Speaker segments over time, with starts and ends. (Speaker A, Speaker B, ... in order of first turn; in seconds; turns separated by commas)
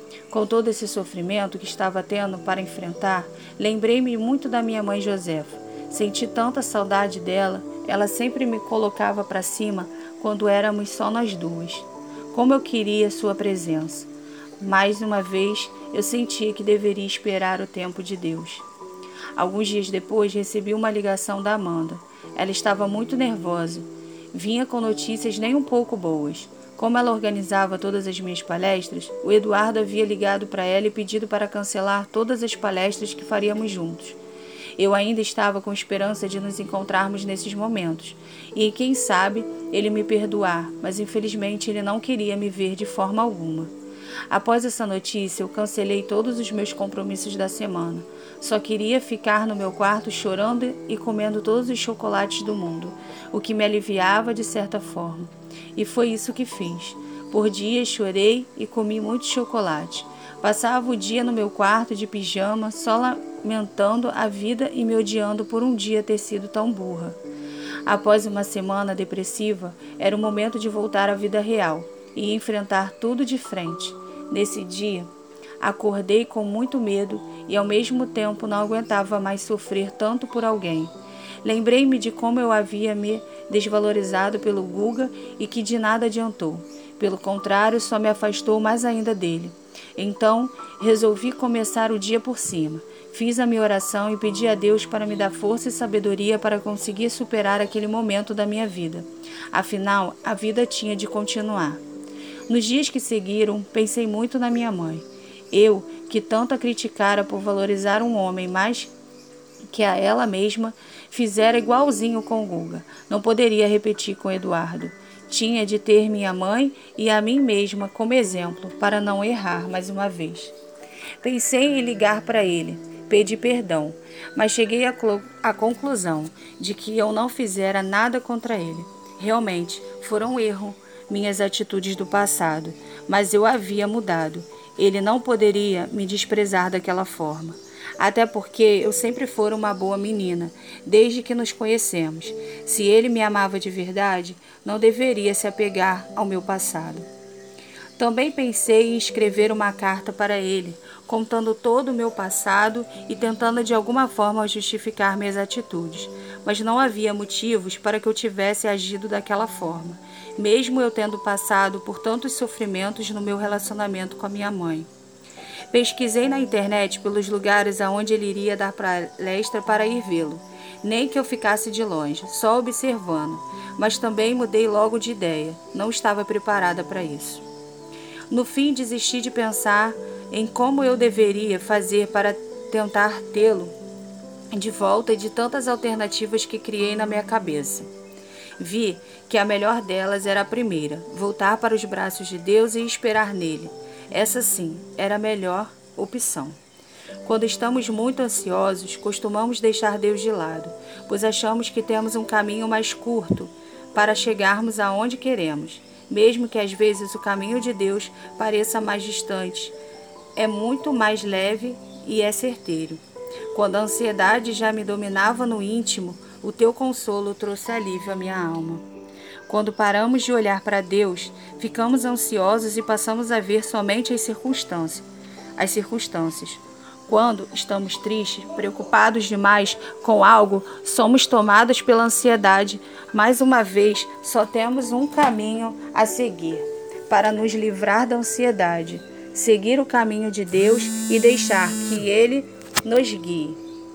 Speaker A: 0.3-18.6, Speaker A: 19.4-34.2, Speaker A: 34.8-43.7, Speaker A: 44.3-67.2, Speaker A: 67.8-75.1, Speaker A: 75.6-80.9, Speaker A: 81.4-101.8, Speaker A: 102.5-108.9, Speaker A: 109.7-120.5, Speaker A: 121.2-147.1, Speaker A: 148.0-164.9, Speaker A: 165.7-177.4, Speaker A: 178.3-183.7, Speaker A: 184.5-187.9, Speaker A: 188.6-196.6, Speaker A: 197.2-209.8, Speaker A: 210.3-218.8, Speaker A: 219.5-225.1, Speaker A: 225.6-243.6